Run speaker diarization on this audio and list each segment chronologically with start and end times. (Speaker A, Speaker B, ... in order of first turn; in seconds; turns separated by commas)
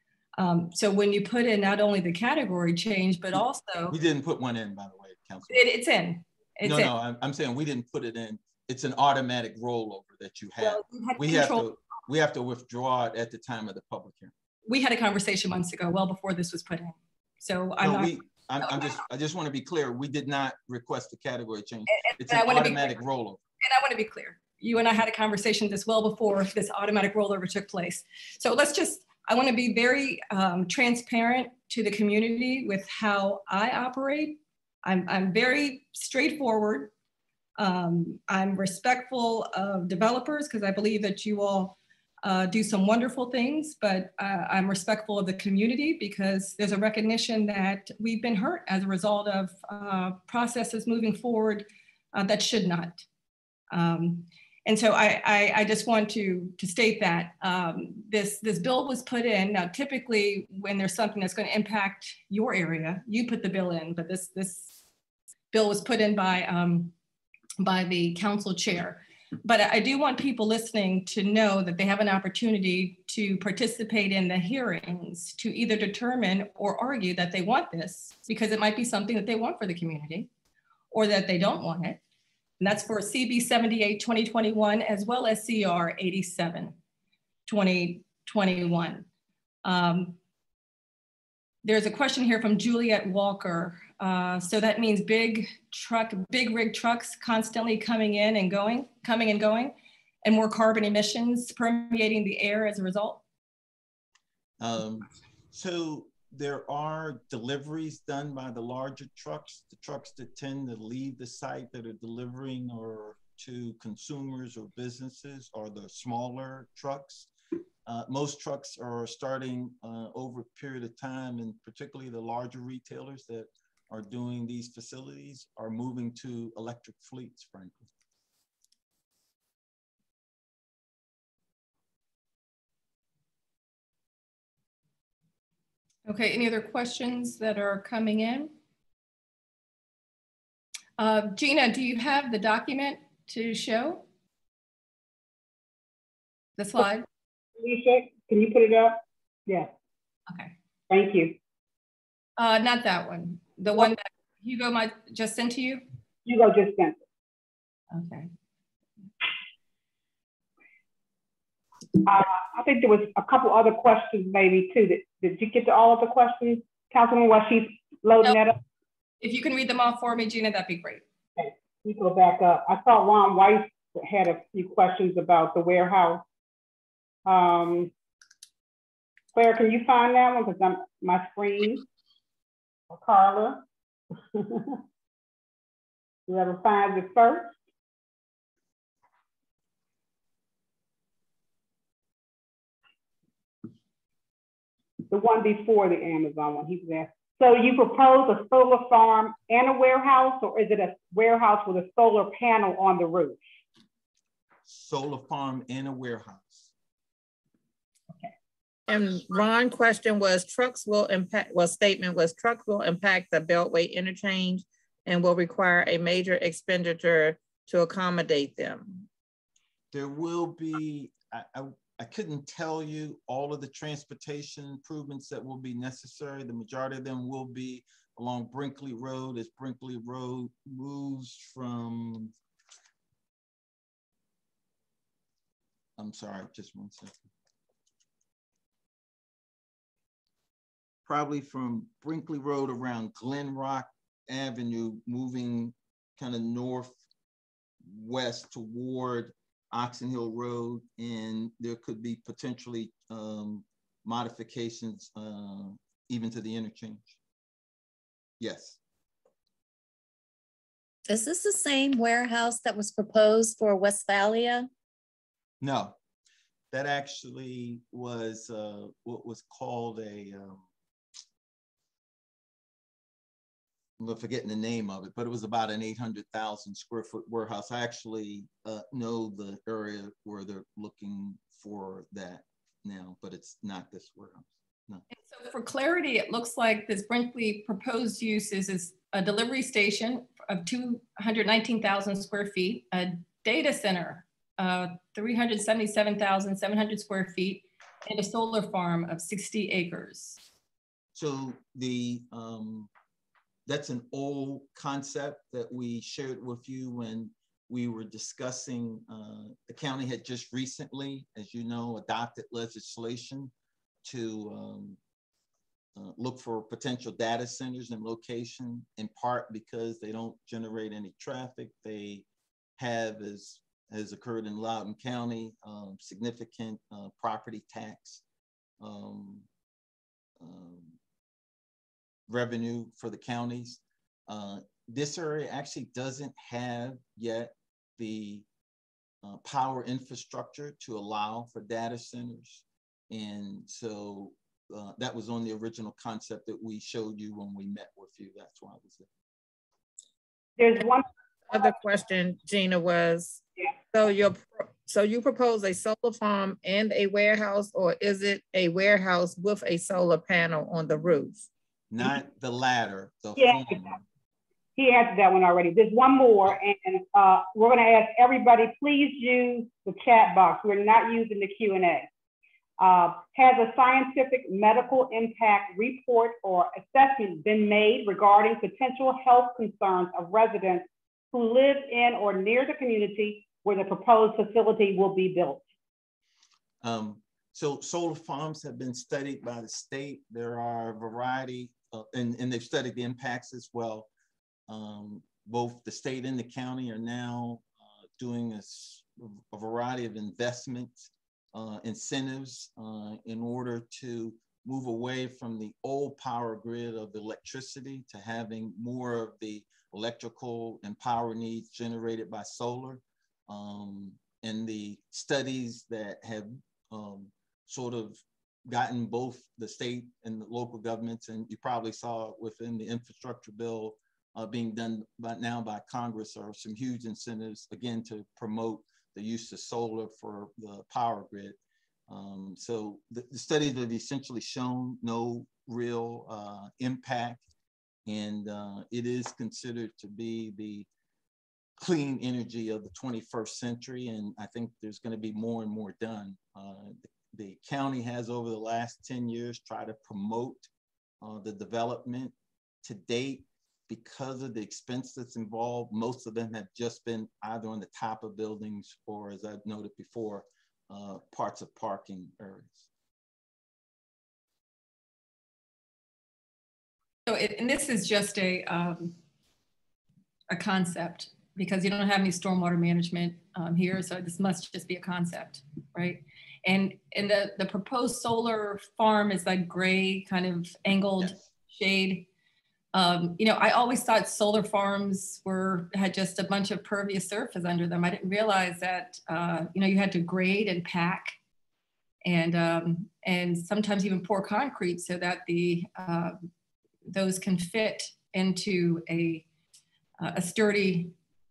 Speaker A: 0.4-4.0, Speaker B: 3.9-5.7, Speaker A: 5.5-6.9, Speaker B: 6.6-14.3, Speaker A: 10.6-11.7, Speaker A: 14.7-19.0, Speaker B: 17.8-23.4, Speaker A: 21.9-23.0, Speaker A: 23.6-36.9, Speaker A: 37.6-53.0, Speaker A: 53.7-64.7, Speaker A: 65.5-66.9, Speaker A: 67.6-80.3, Speaker A: 80.9-82.0, Speaker A: 82.6-86.7, Speaker A: 87.5-89.0, Speaker A: 89.6-90.2, Speaker A: 91.6-103.2, Speaker B: 104.6-117.3, Speaker B: 117.8-127.9, Speaker A: 136.1-138.5, Speaker A: 141.0-144.0, Speaker A: 146.6-147.1, Speaker C: 147.6-149.7, Speaker A: 150.3-150.5, Speaker C: 150.9-151.4, Speaker A: 152.4-155.8, Speaker C: 156.2-157.0, Speaker A: 157.9-158.3, Speaker C: 162.0-168.6, Speaker A: 169.2-171.0, Speaker C: 171.4-176.2, Speaker C: 177.2-177.9, Speaker C: 179.3-181.8, Speaker C: 182.9-183.6, Speaker C: 184.3-184.8, Speaker C: 186.3-187.5, Speaker C: 195.1-203.4, Speaker B: 204.7-206.7, Speaker D: 208.9-219.1, Speaker B: 219.9-232.3, Speaker B: 236.0-237.2, Speaker B: 241.1-246.9, Speaker B: 247.8-257.1, Speaker B: 258.4-258.8, Speaker E: 261.1-264.7, Speaker B: 265.6-265.9, Speaker B: 266.7-270.6, Speaker B: 274.0-285.0, Speaker A: 285.1-300.4, Speaker B: 301.1-302.9, Speaker B: 303.7-313.5, Speaker B: 314.0-315.0, Speaker B: 315.9-322.2, Speaker B: 322.8-328.2, Speaker B: 328.8-329.4, Speaker B: 330.4-331.0, Speaker B: 332.3-338.4, Speaker B: 339.2-349.1, Speaker C: 350.6-351.7, Speaker D: 351.5-361.4, Speaker B: 361.9-364.0, Speaker C: 363.4-363.8, Speaker C: 364.8-372.1, Speaker C: 372.8-385.6, Speaker B: 386.8-394.1, Speaker B: 394.7-437.4, Speaker B: 438.1-440.9, Speaker B: 441.8-450.7, Speaker B: 451.2-462.9, Speaker A: 467.3-469.2, Speaker A: 470.5-482.2, Speaker B: 481.2-481.5, Speaker A: 482.9-491.4, Speaker A: 492.2-496.4, Speaker A: 497.1-499.4, Speaker A: 500.2-501.1